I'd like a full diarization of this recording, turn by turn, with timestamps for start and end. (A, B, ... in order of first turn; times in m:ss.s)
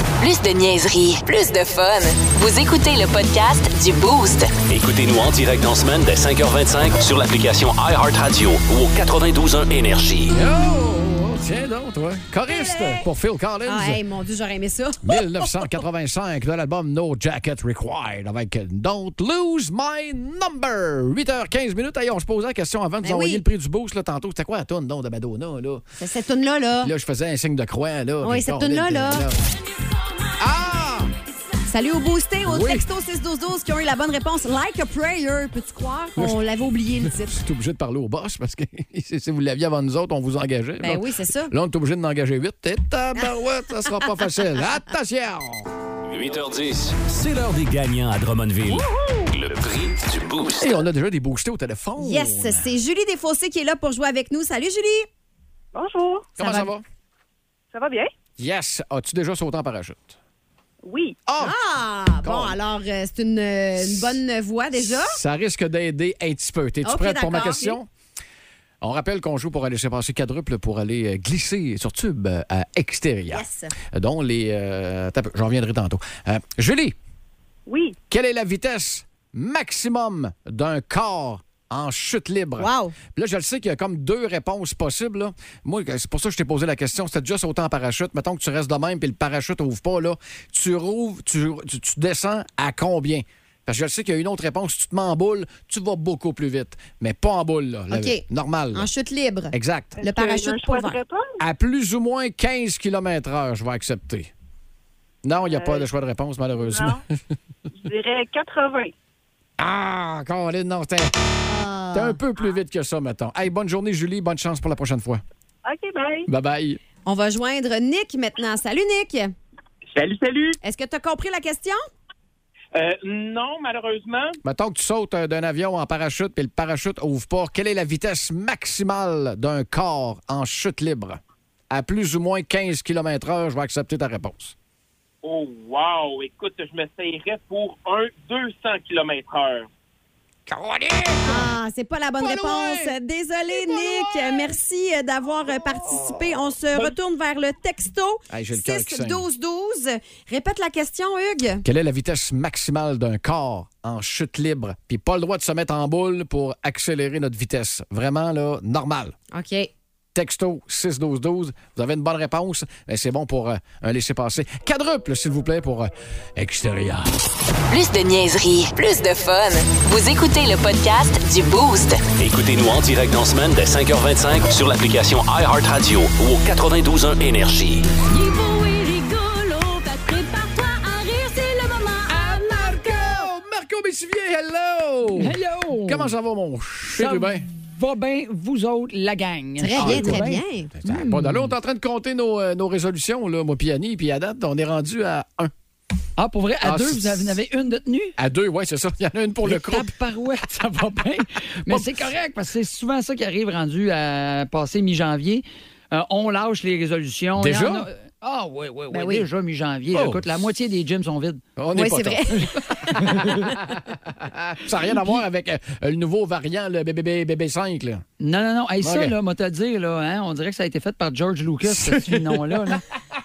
0:00.2-0:04.6 A
0:04.7-0:10.4 B
0:10.3-0:14.0 C
0:12.5-0:13.1 D
0:13.7-0:15.7 D
0:15.0-0:25.8 C
0:23.0-0:23.4 D
0:26.0-0:26.9 D
0:26.8-0:29.4 C
0:28.2-0:29.3 D
0:30.4-0:31.1 C
0:31.7-0:37.3 D
0:32.5-0:32.8 C
0:37.0-0:45.7 C
0:40.8-0:41.5 D
0:46.1-0:50.8 B
0:50.6-0:52.7 C
0:52.0-0:55.1 D
0:55.7-0:56.3 E
0:56.4-0:56.7 D
0:56.4-0:56.8 C
0:57.7-0:58.1 E
0:58.4-1:00.2 C
1:00.8-1:01.2 E
1:01.3-1:01.6 C
1:01.4-1:05.2 D
1:02.2-1:02.6 C
1:03.8-1:04.2 C
1:05.0-1:07.9 C
1:06.8-1:07.7 D
1:08.8-1:17.0 C
1:13.3-1:13.7 D
1:17.7-1:18.0 E
1:18.1-1:38.9 C
1:22.6-1:23.0 D
1:37.9-1:41.0 D
1:39.5-1:40.0 C
1:40.0-1:41.4 E
1:41.4-1:44.3 C
1:45.2-1:47.2 C
1:45.3-1:45.9 E
1:46.6-1:47.0 E
1:47.8-1:48.9 E
1:49.6-1:51.1 C
1:51.5-1:52.2 D
1:51.9-1:55.2 C
1:55.6-1:56.3 E
1:56.3-1:56.8 C
1:57.0-1:59.4 D
1:59.9-2:00.6 F
2:00.6-2:01.8 D
2:02.8-2:04.4 F
2:04.4-2:11.2 C
2:11.7-2:14.5 C
2:15.2-2:19.7 F
2:20.5-2:21.5 C
2:21.2-2:31.6 D
2:22.2-2:23.0 C
2:23.5-2:24.6 C
2:28.3-2:29.2 C
2:31.6-2:39.2 C
2:39.3-2:39.7 D
2:40.1-2:47.1 C
2:47.7-2:52.1 A
2:52.2-2:57.9 B
2:58.2-3:02.0 G
3:02.0-3:07.5 C
3:05.2-3:06.1 H
3:07.0-3:11.5 H
3:09.6-3:10.7 D
3:09.8-3:15.5 C
3:16.2-3:18.2 H
3:16.6-3:17.4 C
3:18.2-3:19.9 C
3:19.4-3:31.4 H
3:21.7-3:22.0 C
3:27.4-3:27.9 C
3:28.9-3:29.3 D
3:29.9-3:30.3 C
3:31.6-3:38.0 C
3:31.8-3:32.8 D
3:33.0-3:33.5 H
3:38.2-3:42.8 H
3:38.8-3:39.2 C
3:41.6-3:42.8 C